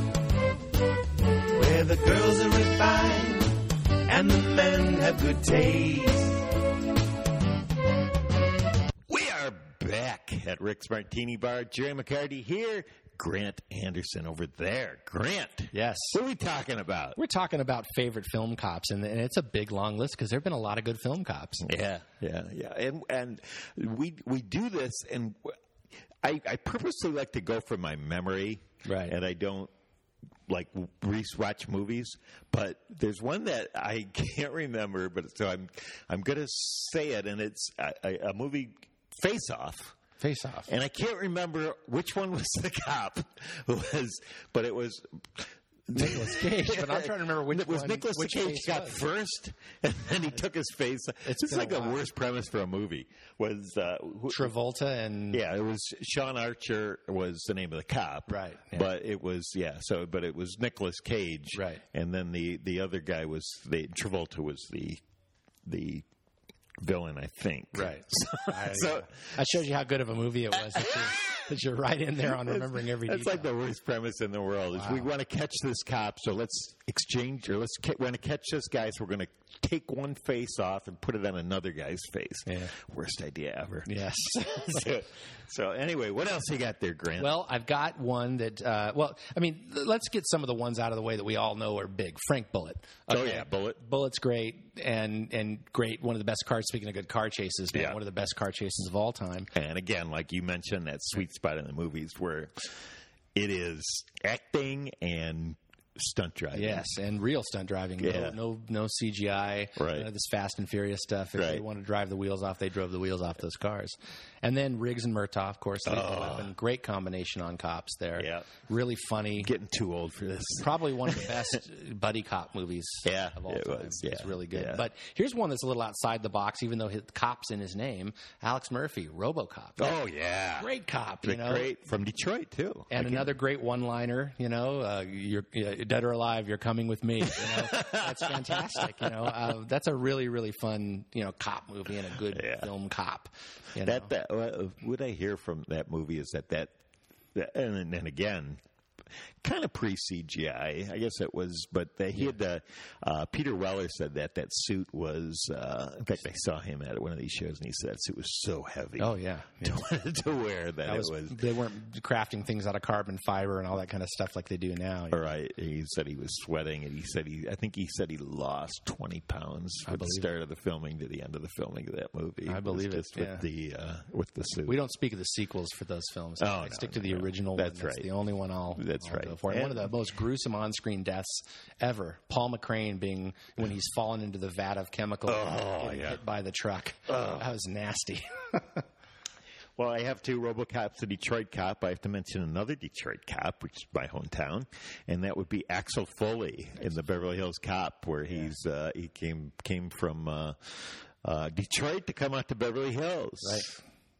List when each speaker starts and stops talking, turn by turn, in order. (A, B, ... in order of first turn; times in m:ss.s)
0:01.5-0:06.4 A
0:09.1-0:17.2 B
0:15.7-0:16.2 C
0:17.2-0:21.7 C
0:21.6-0:25.6 B
0:26.2-0:29.7 B
0:28.8-0:29.1 C
0:30.5-0:40.0 B
0:40.2-0:40.7 C
0:40.7-0:54.5 B
0:45.9-0:49.0 C
0:51.2-0:52.0 C
0:54.3-0:55.4 C
0:55.3-1:05.0 B
0:58.3-0:58.9 C
1:01.5-1:01.8 C
1:05.6-1:06.0 B
1:06.8-1:09.4 B
1:07.7-1:13.5 C
1:10.7-1:11.1 B
1:12.2-1:27.3 B
1:14.7-1:15.1 C
1:22.5-1:22.7 C
1:23.8-1:24.9 C
1:27.2-1:39.5 C
1:33.1-1:33.8 B
1:37.7-1:38.0 B
1:39.5-1:46.9 B
1:46.5-1:59.5 C
1:48.0-1:48.4 B
1:49.8-1:50.1 B
1:51.3-1:51.6 B
1:55.8-1:56.5 B
1:58.2-1:58.5 B
1:59.4-2:01.4 B
2:00.6-2:09.9 C
2:03.0-2:04.8 B
2:09.8-2:10.7 B
2:10.6-2:11.7 C
2:11.2-2:13.3 B
2:12.9-2:24.1 C
2:17.2-2:19.3 B
2:22.3-2:22.7 B
2:23.8-2:26.7 B
2:27.3-2:28.6 B
2:29.4-2:39.1 B
2:39.0-2:39.8 C
2:39.6-2:41.4 B
2:40.8-2:45.2 C
2:45.1-2:54.8 B
2:49.8-2:50.3 C
2:52.4-2:53.4 C
2:54.7-3:08.8 C
2:56.4-2:58.1 B
2:58.8-2:59.9 B
3:05.3-3:06.2 B
3:07.1-3:07.4 B
3:09.8-3:23.7 B
3:23.4-3:23.8 C